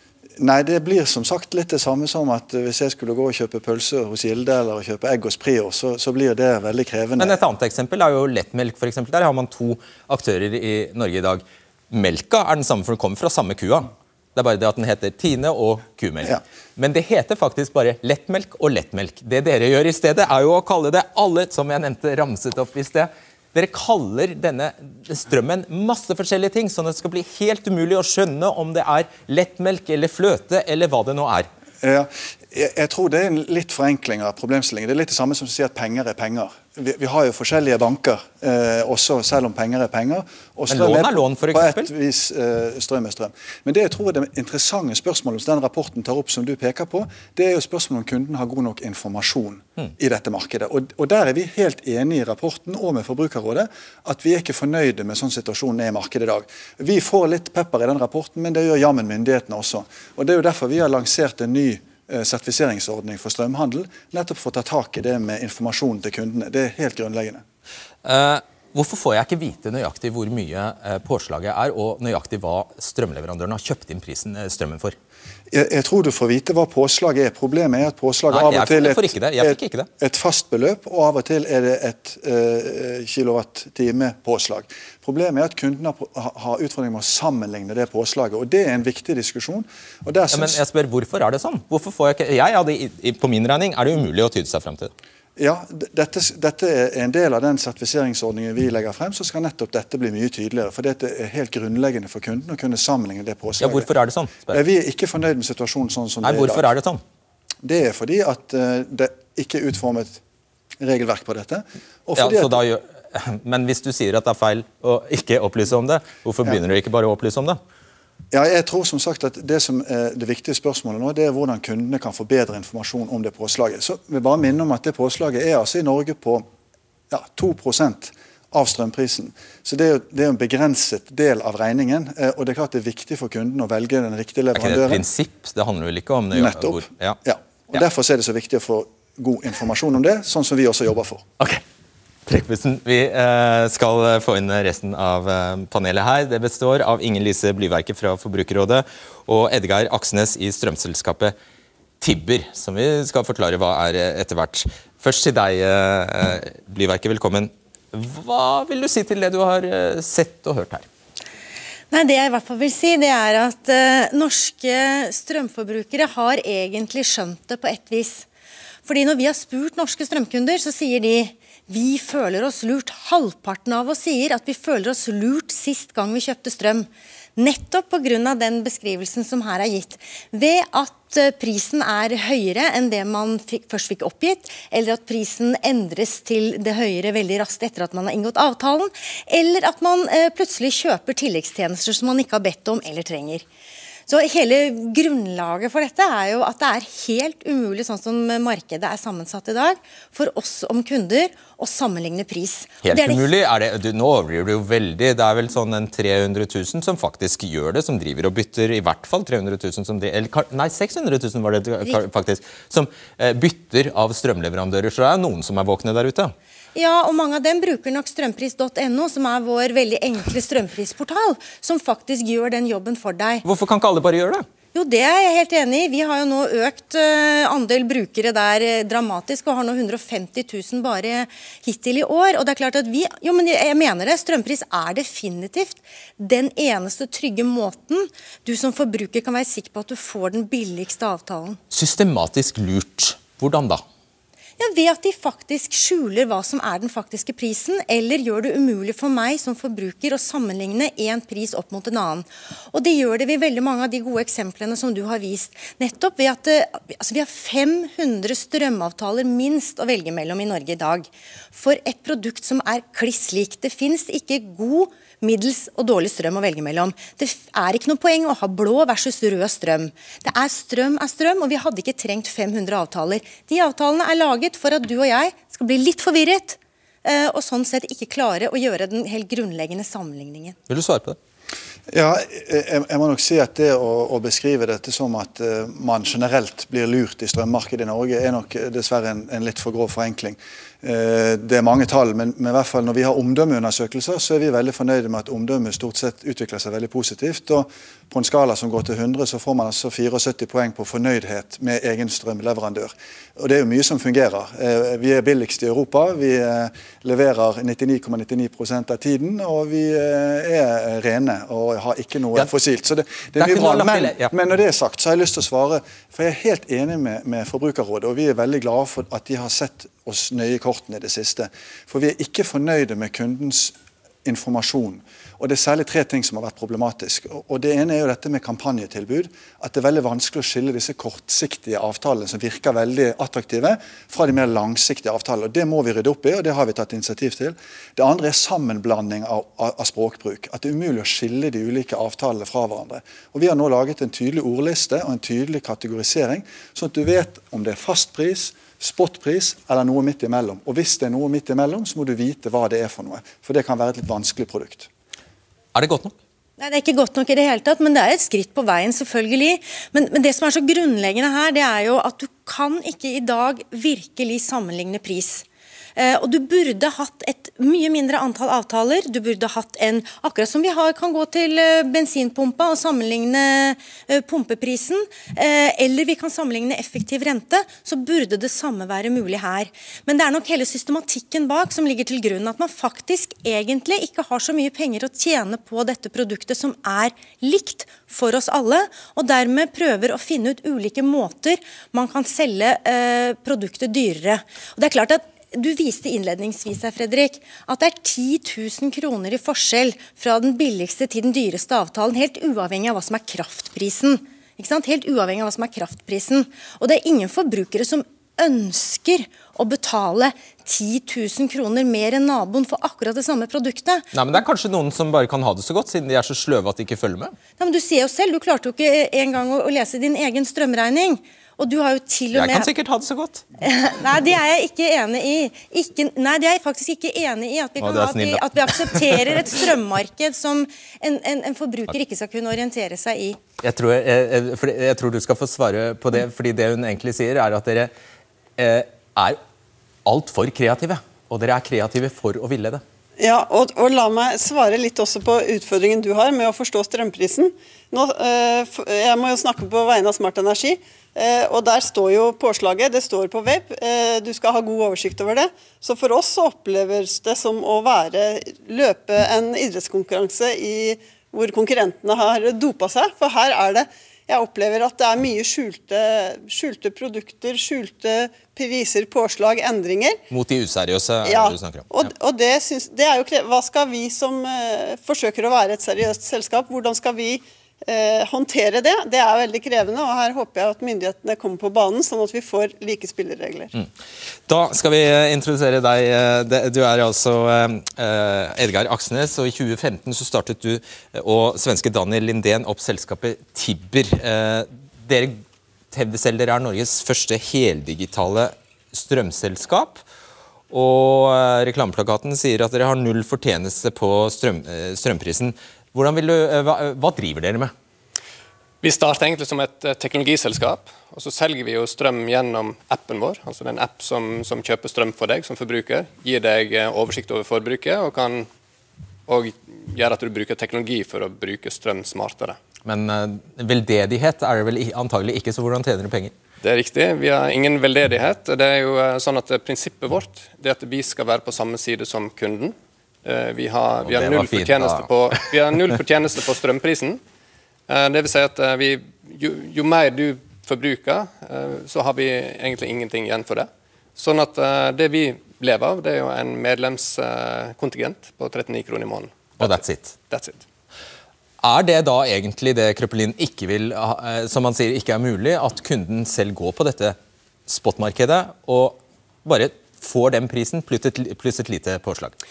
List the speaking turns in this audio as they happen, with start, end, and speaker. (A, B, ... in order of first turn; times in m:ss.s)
0:00.4-0:07.4 A
0:07.2-0:31.5 B
0:31.8-1:07.4 A
0:40.7-0:41.9 B
1:08.0-1:15.0 B
1:15.5-1:30.6 A
1:18.3-1:19.9 B
1:30.3-1:34.9 B
1:35.4-1:43.9 A
1:43.6-1:44.6 B
1:44.5-1:46.7 A
1:46.2-1:47.0 B
1:47.6-1:50.2 A
1:50.8-1:52.6 A
1:52.2-1:57.6 B
1:58.3-2:06.4 A
2:07.1-2:15.0 A
2:14.6-2:17.2 B
2:16.3-2:21.2 A
2:22.3-2:31.4 B
2:32.0-2:40.9 B
2:41.9-2:48.3 C
2:48.8-3:13.4 C
3:14.1-3:23.3 C
3:22.8-3:36.3 B
3:36.8-3:43.4 C
3:43.5-3:44.5 B
3:44.7-4:01.6 C
4:01.7-4:03.8 B
4:04.6-4:40.6 C
4:40.7-4:41.2 B
4:41.9-5:54.9 A
5:13.4-5:14.3 B
5:55.8-5:56.2 B
5:56.6-6:05.4 C
6:06.0-6:54.1 C
6:54.1-6:57.4 B
6:57.6-7:02.7 C
7:02.3-7:03.4 B
7:03.6-7:13.4 C
7:07.8-7:09.5 B
7:13.6-7:17.9 B
7:18.6-7:19.4 B
7:20.0-7:22.8 B
7:23.2-7:50.2 D
7:50.3-7:52.1 B
7:51.2-8:03.7 D
8:04.5-8:15.4 B
8:15.9-8:20.0 B
8:20.7-8:27.7 B
8:28.8-8:38.5 E
8:39.3-8:42.6 E
8:42.8-8:46.3 B
8:46.6-8:57.2 E
8:54.0-8:55.5 B
8:57.9-9:10.6 E
9:09.6-9:10.2 B
9:11.6-9:22.4 B